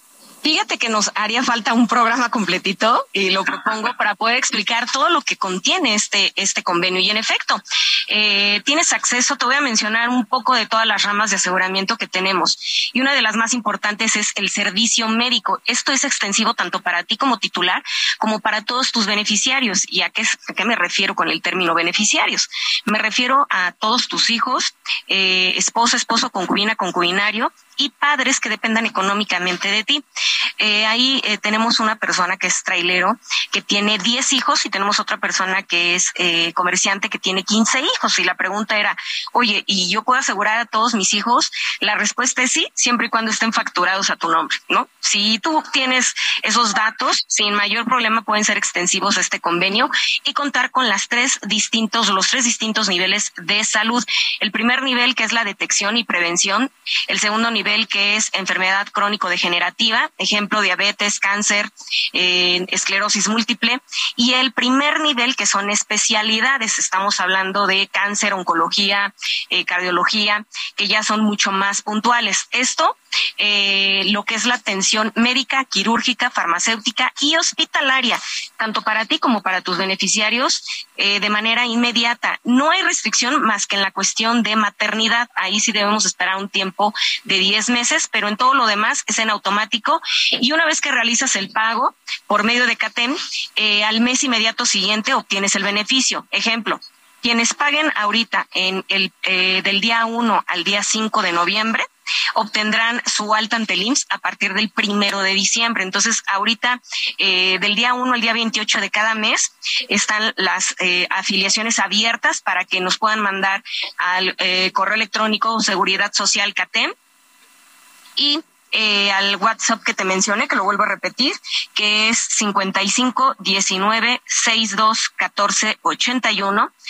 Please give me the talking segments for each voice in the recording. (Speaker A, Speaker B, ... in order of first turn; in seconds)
Speaker A: 0.4-30.0, 30.6-116.9, 118.2-126.7